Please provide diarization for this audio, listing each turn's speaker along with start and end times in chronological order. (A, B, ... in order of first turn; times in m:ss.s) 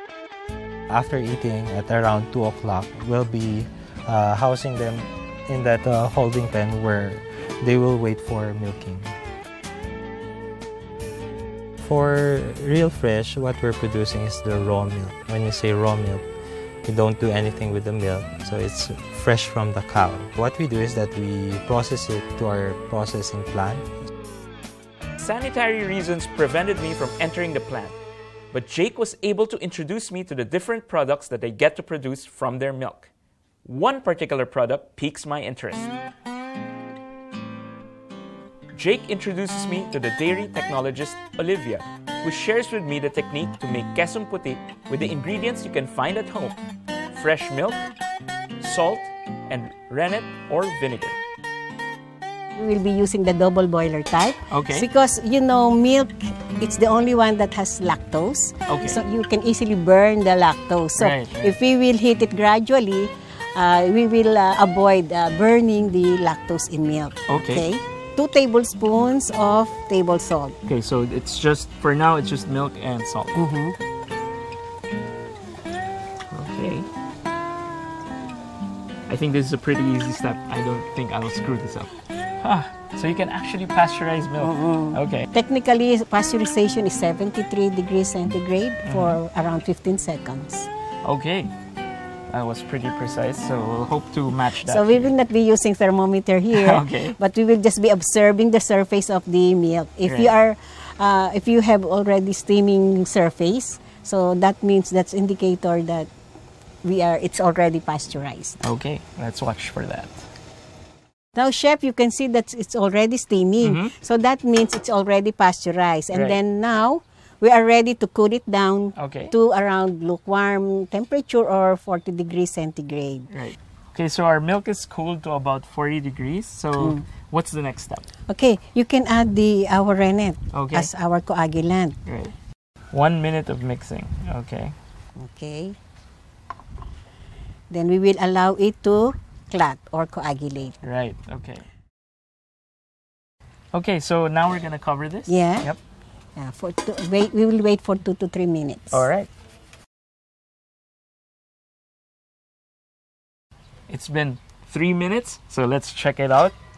0:00.9-0:09.2 A
0:11.8-0:16.2 A
0:16.8-0:23.8 A
0:25.2-0:28.0 B
0:28.5-0:33.1 B
0:33.6-0:35.9 B
0:38.7-0:46.6 B
0:47.1-0:47.9 B
0:48.6-0:51.2 B
0:52.6-1:10.6 C
0:54.5-0:54.9 B
0:58.7-0:59.0 B
1:01.0-1:01.6 B
1:07.3-1:07.6 B
1:10.7-1:13.4 B
1:13.3-1:13.8 C
1:16.3-1:16.9 B
1:19.1-1:25.3 B
1:24.4-1:30.7 C
1:28.8-1:29.2 B
1:31.0-1:31.5 B
1:32.3-1:35.1 B
1:34.6-1:46.1 C
1:36.5-1:37.2 B
1:40.1-1:40.3 B
1:46.8-1:48.6 C
1:48.6-1:50.2 B
1:51.3-2:03.3 C
1:53.6-1:53.9 B
1:56.1-1:56.4 B
1:58.9-1:59.3 B
2:03.3-2:08.0 B
2:06.8-2:07.0 C
2:08.3-2:12.0 C
2:10.5-2:10.9 B
2:12.1-2:12.3 B
2:12.9-2:14.8 B
2:15.2-2:15.8 C
2:17.7-2:20.8 C
2:20.8-2:21.7 B
2:23.7-2:25.8 B
2:25.3-2:25.7 C
2:26.4-2:29.1 C
2:28.9-2:29.3 B
2:33.9-2:36.6 B